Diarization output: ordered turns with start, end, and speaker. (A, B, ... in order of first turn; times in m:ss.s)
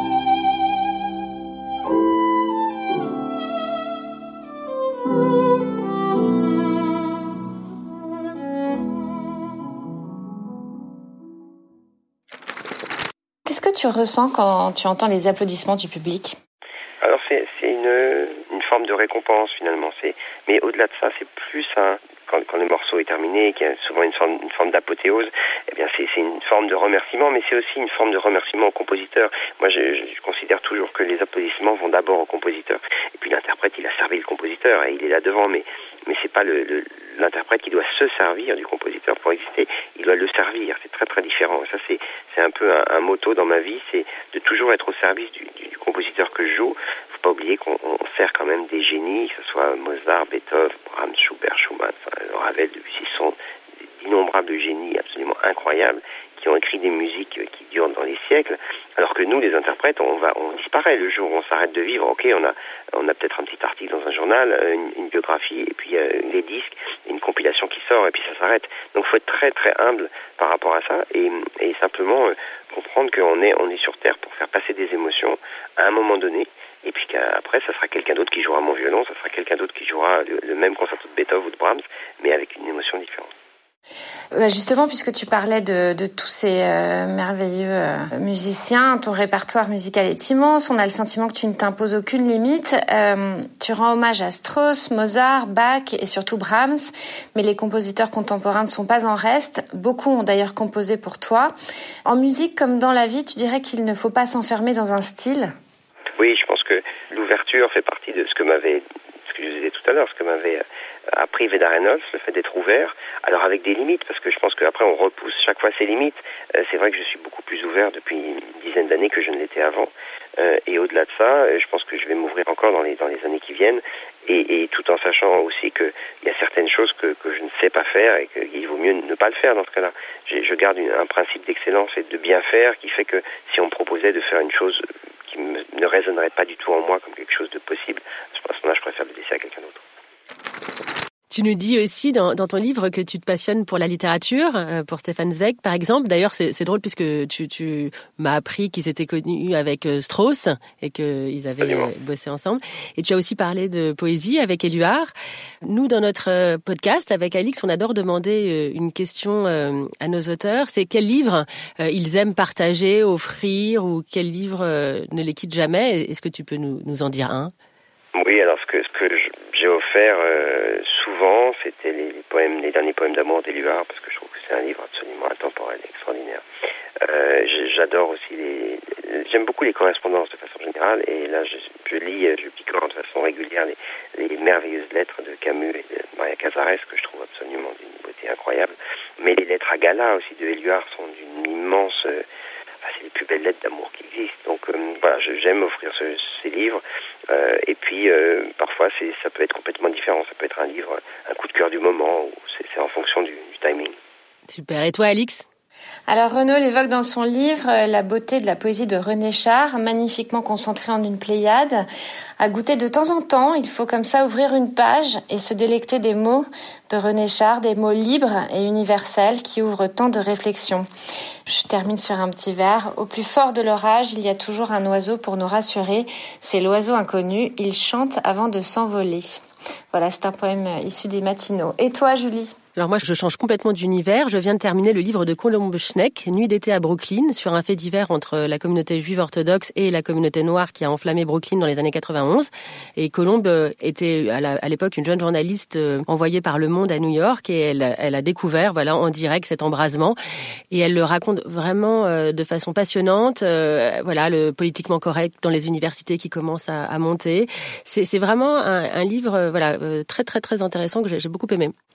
0:13.5-0:16.4 A
0:17.0-0:53.4 B
0:54.0-1:23.3 B
1:24.4-1:41.5 A
1:42.1-1:45.5 A
1:46.2-2:19.8 B
2:21.3-2:35.1 C
2:31.6-2:31.9 B
2:35.7-2:47.5 C
2:48.2-2:56.4 B
2:57.0-3:12.2 B
3:12.8-3:24.0 B
3:24.5-3:25.5 C
3:26.1-3:31.8 A
3:32.4-3:40.9 A
3:41.5-3:49.4 A
3:49.9-3:52.6 A
3:52.8-4:10.2 C
4:10.7-4:21.7 C